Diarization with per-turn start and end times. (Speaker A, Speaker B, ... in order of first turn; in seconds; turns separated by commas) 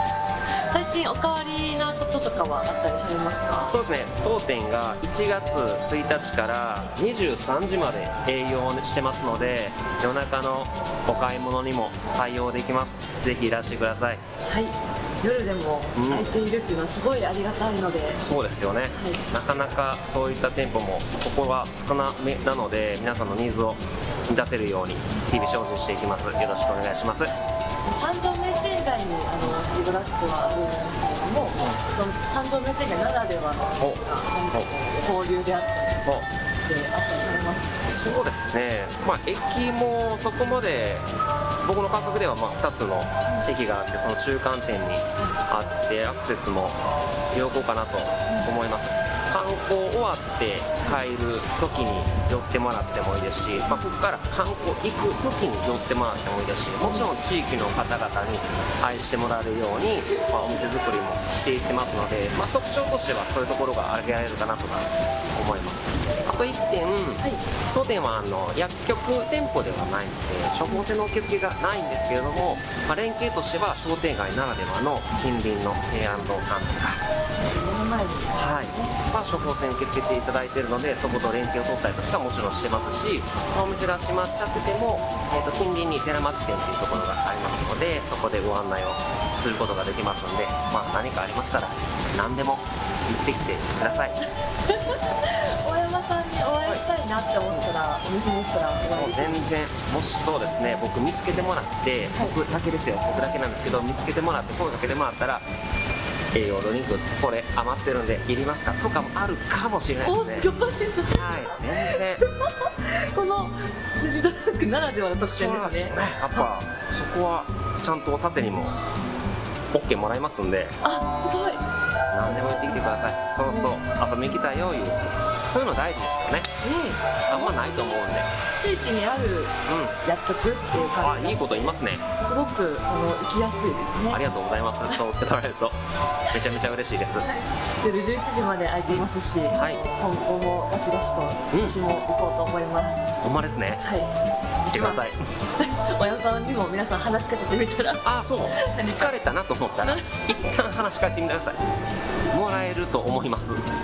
Speaker A: 0.7-3.7, Speaker B: 3.6-14.2, Speaker A: 14.5-18.2, Speaker B: 15.9-16.3, Speaker B: 18.2-27.3, Speaker A: 18.9-19.2, Speaker A: 27.8-37.8, Speaker B: 37.9-41.1, Speaker B: 41.6-46.8, Speaker B: 47.3-77.0, Speaker A: 77.4-79.0, Speaker B: 78.3-94.2, Speaker A: 94.7-99.5, Speaker B: 98.9-105.5, Speaker B: 106.3-110.5, Speaker A: 110.0-116.5, Speaker B: 111.1-112.2, Speaker B: 115.2-118.8, Speaker B: 119.7-120.8, Speaker A: 120.8-121.6, Speaker B: 122.1-126.5, Speaker A: 122.2-122.9, Speaker A: 123.5-123.7, Speaker A: 126.6-127.5, Speaker B: 127.3-128.3, Speaker A: 128.5-134.2, Speaker B: 129.7-129.9, Speaker B: 131.0-132.1, Speaker B: 134.1-135.8, Speaker B: 136.3-137.2, Speaker A: 137.2-143.1, Speaker B: 138.9-139.8, Speaker B: 141.5-141.8, Speaker B: 143.2-143.8, Speaker A: 143.8-144.1, Speaker A: 144.6-145.0, Speaker B: 144.7-145.1, Speaker A: 145.6-149.2, Speaker B: 148.0-151.6, Speaker B: 152.3-153.6